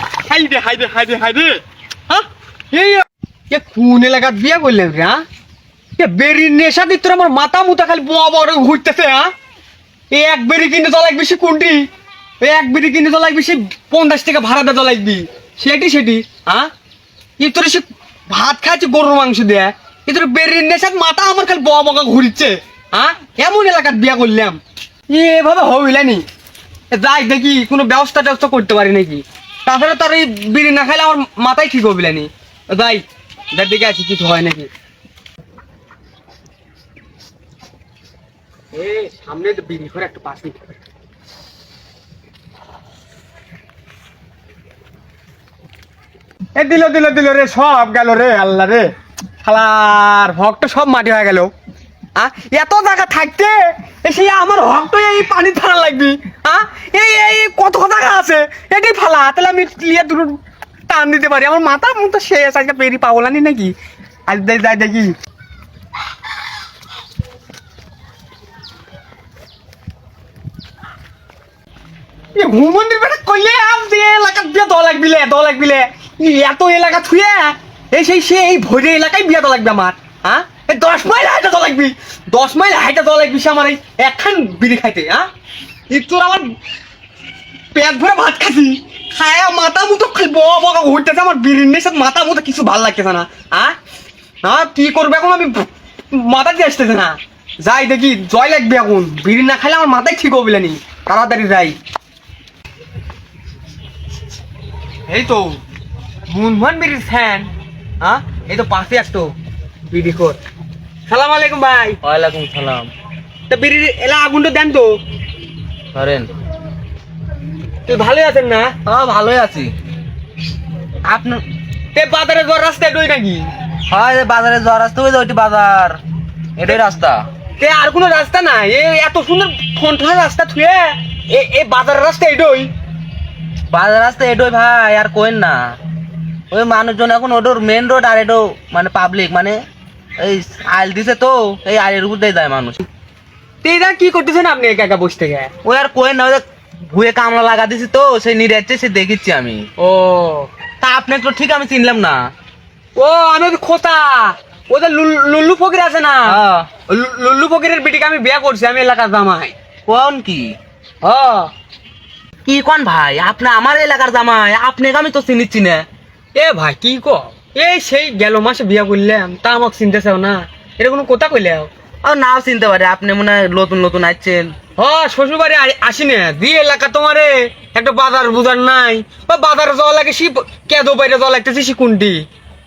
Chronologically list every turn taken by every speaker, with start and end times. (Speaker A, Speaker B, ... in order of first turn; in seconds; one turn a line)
Speaker A: 0.3-5.2
Speaker A: 6.0-9.3
Speaker A: 10.1-11.8
Speaker A: 12.4-16.7
Speaker A: 17.4-24.6
Speaker A: 25.1-26.2
Speaker A: 26.9-34.7
Speaker A: 38.7-40.7
Speaker A: 46.5-48.9
Speaker A: 49.4-51.5
Speaker A: 52.1-60.4
Speaker A: 60.9-63.7
Speaker A: 64.3-65.1
Speaker A: 72.3-85.3
Speaker A: 85.9-86.5
Speaker A: 87.7-93.7
Speaker A: 94.4-101.8
Speaker A: 105.1-105.6
Speaker A: 106.3-109.3
Speaker A: 109.9-110.4
Speaker A: 111.1-112.0
Speaker B: 112.0-112.9
Speaker A: 113.5-115.0
Speaker B: 115.9-116.3
Speaker A: 117.8-118.8
Speaker B: 118.8-119.7
Speaker B: 121.0-121.4
Speaker A: 121.9-123.5
Speaker B: 123.9-126.0
Speaker B: 126.5-127.2
Speaker A: 127.6-132.7
Speaker B: 133.7-135.6
Speaker B: 136.5-139.6
Speaker B: 140.2-142.8
Speaker A: 143.6-145.5
Speaker B: 145.6-149.6
Speaker A: 149.8-150.5
Speaker B: 150.8-152.2
Speaker A: 152.9-159.5
Speaker B: 156.2-156.7
Speaker B: 159.9-160.5
Speaker A: 161.0-161.5
Speaker B: 162.4-165.8
Speaker A: 166.3-171.7
Speaker B: 172.0-174.5
Speaker A: 174.8-182.2